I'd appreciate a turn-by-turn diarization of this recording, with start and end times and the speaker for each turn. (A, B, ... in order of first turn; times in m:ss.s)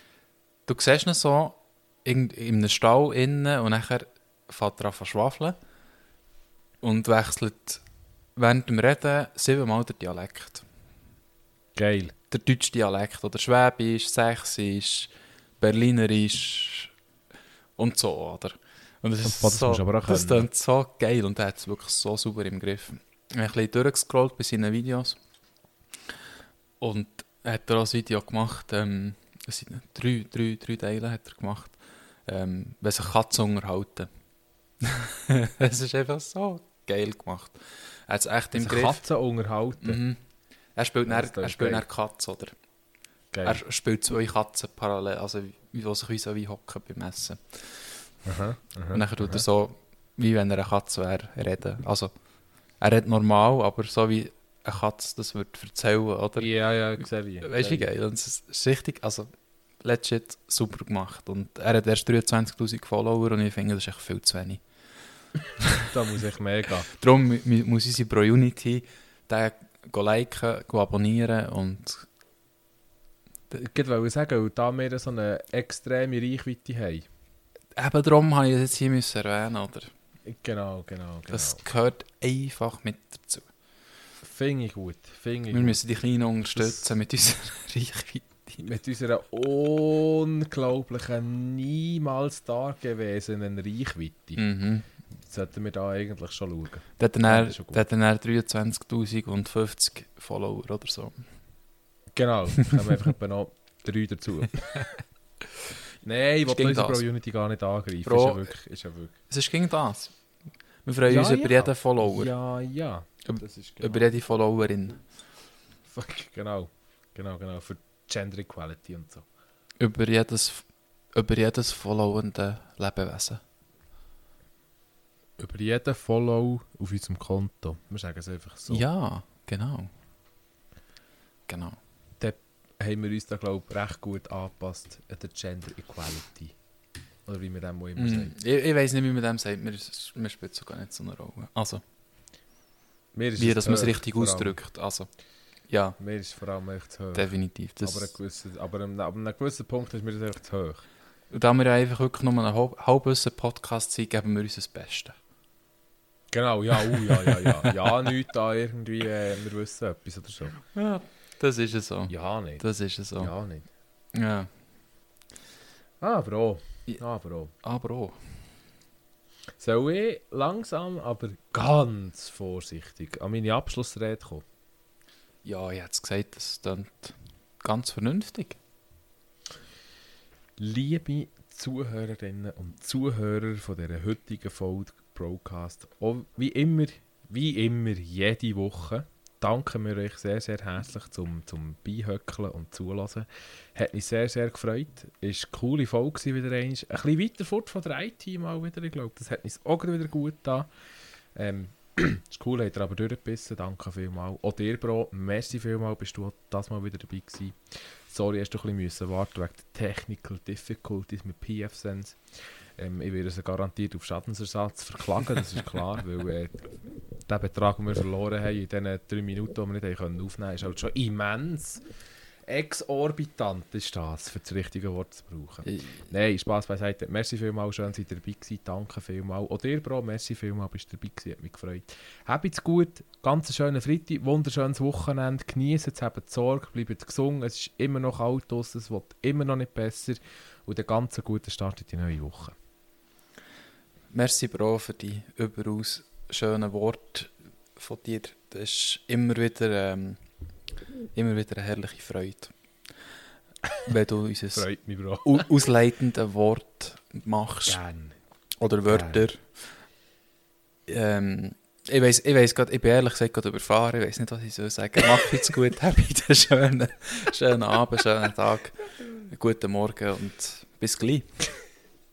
0:00.6-0:05.6 A
0:06.8-0:07.8 A
0:08.4-0:10.6 A
0:11.8-0:12.1 B
0:12.3-0:16.9 A
0:17.8-0:25.2 A
0:19.2-0:20.5 B
0:26.8-0:34.1 A
0:34.8-0:39.0 A
0:38.5-0:40.0 B
0:39.8-0:40.2 A
0:40.8-0:42.5 A
0:41.1-0:41.8 B
0:43.3-0:43.6 B
0:43.4-0:48.0 A
0:48.2-0:49.4 B
0:48.9-0:52.1 A
0:52.8-0:56.5 A
0:56.4-0:57.9 B
0:57.4-0:59.3 A
0:59.8-1:04.6 A
1:05.6-1:05.9 A
1:05.8-1:06.9 B
1:06.9-1:12.0 A
1:13.5-1:17.0 B
1:17.8-1:19.9 A
1:20.3-1:21.6 B
1:21.3-1:23.5 A
1:24.2-1:25.8 B
1:25.5-1:28.6 A
1:26.5-1:26.9 B
1:28.6-1:34.4 B
1:34.4-1:34.8 A
1:35.2-1:37.8 B
1:37.0-1:41.2 A
1:42.2-1:44.9 B
1:46.0-1:49.1 B
1:46.4-1:47.0 A
1:48.0-1:48.5 A
1:49.3-1:50.1 A
1:50.8-1:52.3 A
1:51.0-1:54.0 B
1:53.3-1:55.0 A
1:55.9-1:59.2 B
1:59.8-2:03.4 A
2:05.4-2:08.8 B
2:08.7-2:09.9 A
2:11.5-2:11.8 A
2:12.2-2:16.5 B
2:17.2-2:18.3 B
2:18.0-2:21.8 A
2:23.1-2:24.6 B
2:23.4-2:25.1 A
2:25.7-2:26.0 A
2:26.0-2:27.3 B
2:27.1-2:28.1 A
2:27.8-2:30.8 B
2:31.3-2:35.2 A
2:36.3-2:40.6 B
2:36.9-2:38.1 A
2:40.7-2:43.3 A
2:42.1-2:42.6 B
2:43.2-2:43.7 B
2:44.1-2:44.5 A
2:46.0-2:47.5 B
2:47.6-2:48.2 A
2:49.6-2:54.4 B
2:55.4-2:58.6 A
3:00.6-3:20.7 B
3:21.4-3:27.6 B
3:28.1-3:32.2 B
3:32.8-3:36.6 B
3:37.3-3:41.8 B
3:42.5-4:02.5 B
4:04.1-4:10.2 A
4:11.1-4:12.5 A
4:13.8-4:14.6 A
4:14.5-4:15.4 B
4:15.2-4:17.8 A
4:17.6-4:18.2 B
4:18.6-4:19.4 A
4:18.8-4:19.3 B
4:20.9-4:31.3 A